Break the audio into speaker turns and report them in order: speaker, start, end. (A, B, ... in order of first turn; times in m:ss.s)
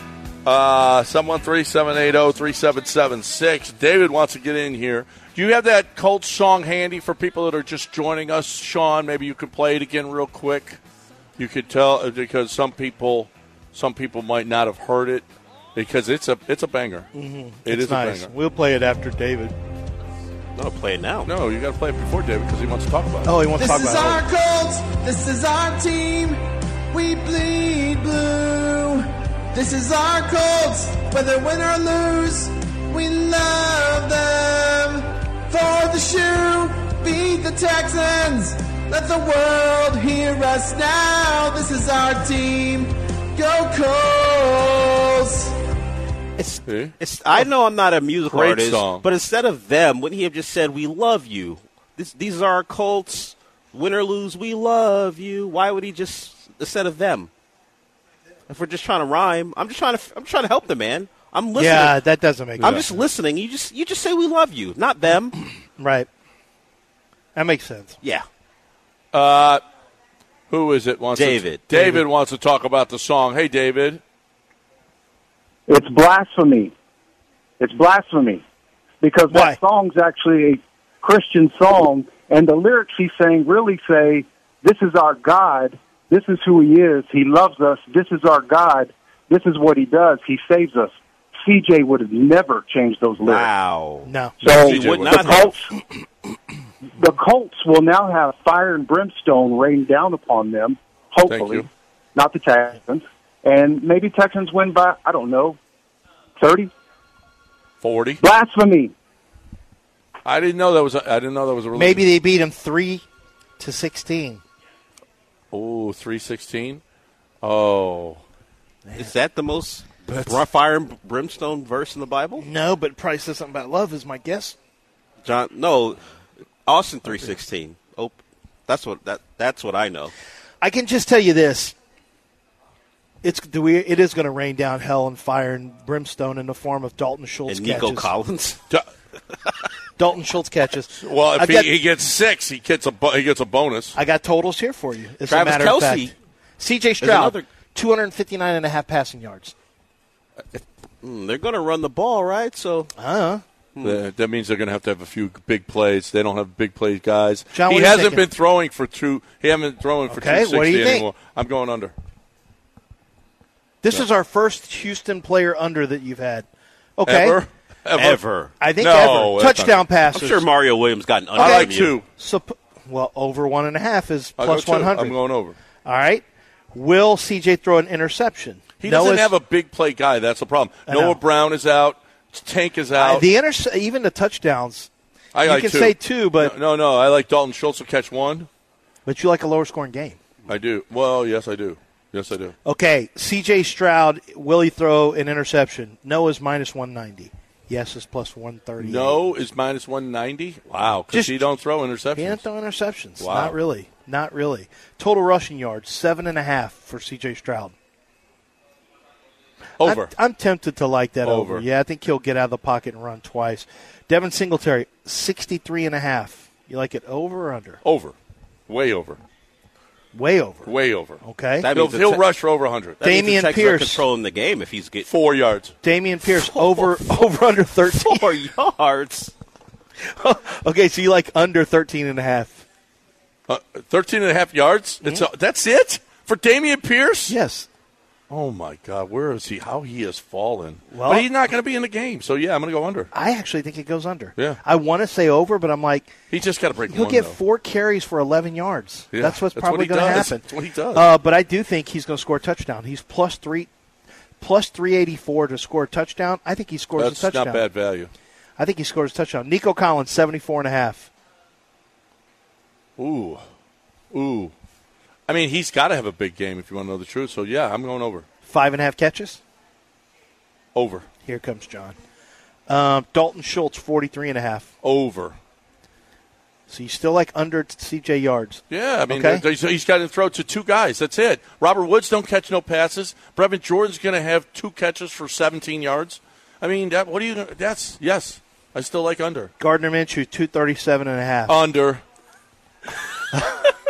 0:00.4-0:10.8 A
0:11.4-0:17.1 A
0:17.1-0:19.5 B
0:17.6-0:18.3 A
0:20.6-0:21.3 C
0:21.3-0:23.5 A
0:23.3-0:24.2 B
0:23.6-0:45.6 D
0:46.4-0:57.3 C
0:46.7-0:47.4 A
0:48.3-0:49.0 A
0:58.5-1:02.0 C
1:01.6-1:02.9 B
1:02.6-1:02.9 A
1:02.6-1:05.4 C
1:05.8-1:06.1 B
1:07.4-1:08.0 B
1:09.1-1:09.6 A
1:10.5-1:14.0 A
1:11.2-1:11.6 C
1:11.7-1:12.0 B
1:15.7-1:16.7 E
1:17.6-1:18.4 E
1:19.0-1:33.5 E
1:19.3-1:19.6 B
1:33.2-1:35.6 C
1:34.1-1:34.4 B
1:34.4-1:35.7 E
1:34.4-1:35.4 A
1:37.0-1:45.6 E
1:41.3-1:41.7 A
1:46.4-1:46.7 E
1:47.8-1:48.2 A
1:48.2-1:48.9 E
1:50.2-1:52.1 A
1:51.8-1:53.1 B
1:53.6-1:54.4 B
1:55.5-1:56.8 A
1:57.4-1:58.2 A
1:59.0-2:02.4 C
2:00.1-2:00.4 A
2:02.4-2:04.6 B
2:05.2-2:06.0 C
2:06.7-2:10.1 C
2:10.6-2:11.8 B
2:13.2-2:18.1 B
2:17.5-2:18.6 C
2:20.0-2:21.7 B
2:21.0-2:24.0 A
2:24.0-2:29.6 B
2:25.3-2:26.1 C
2:27.0-2:27.5 C
2:30.6-2:32.9 C
2:33.0-2:33.4 B
2:33.8-2:41.9 A
2:37.5-2:38.2 B
2:40.1-2:41.1 B
2:43.8-2:46.5 B
2:47.0-2:47.4 B
2:47.1-2:49.9 A
2:48.0-2:48.5 C
2:48.6-2:50.5 B
2:50.1-2:52.0 C
2:51.3-2:52.1 A
2:51.4-2:55.2 B
2:54.4-2:55.6 A
2:55.8-2:59.3 B
2:58.8-3:03.3 A
3:00.9-3:01.2 B
3:03.0-3:04.9 B
3:05.3-3:08.5 A
3:05.4-3:06.5 B
3:09.1-3:10.2 B
3:10.5-3:12.6 A
3:12.6-3:19.3 B
3:18.8-3:22.4 A
3:21.1-3:21.5 B
3:22.2-3:27.7 B
3:23.2-3:23.6 A
3:29.8-3:30.1 A
3:29.8-3:37.8 B
3:31.2-3:31.6 A
3:37.8-3:38.2 A
3:38.7-3:39.2 A
3:40.1-3:40.7 B
3:40.7-3:43.0 A
3:41.2-3:41.7 B
3:41.6-3:42.2 C
3:43.0-3:45.1 C
3:43.0-3:44.0 B
3:45.1-3:45.7 A
3:45.8-3:48.3 B
3:46.2-3:47.1 C
3:47.9-3:49.3 C
3:50.0-3:52.6 B
3:53.5-3:57.4 A
3:57.3-3:57.7 B
3:58.3-4:03.1 A
4:00.9-4:01.3 B
4:03.1-4:06.1 B
4:06.3-4:07.4 A
4:06.9-4:13.7 B
4:09.1-4:11.1 A
4:14.4-4:17.6 B
4:17.0-4:18.1 A
4:18.6-4:21.1 B
4:23.0-4:23.4 A
4:24.1-4:24.5 A
4:25.3-4:28.3 A
4:28.4-4:29.4 B
4:30.8-4:31.1 A
4:31.2-4:32.0 B
4:32.7-4:34.7 B
4:34.8-4:35.4 A
4:36.7-4:39.4 B
4:38.7-4:49.5 A
4:49.6-4:51.6 B
4:51.5-4:52.0 A
4:53.3-4:53.6 B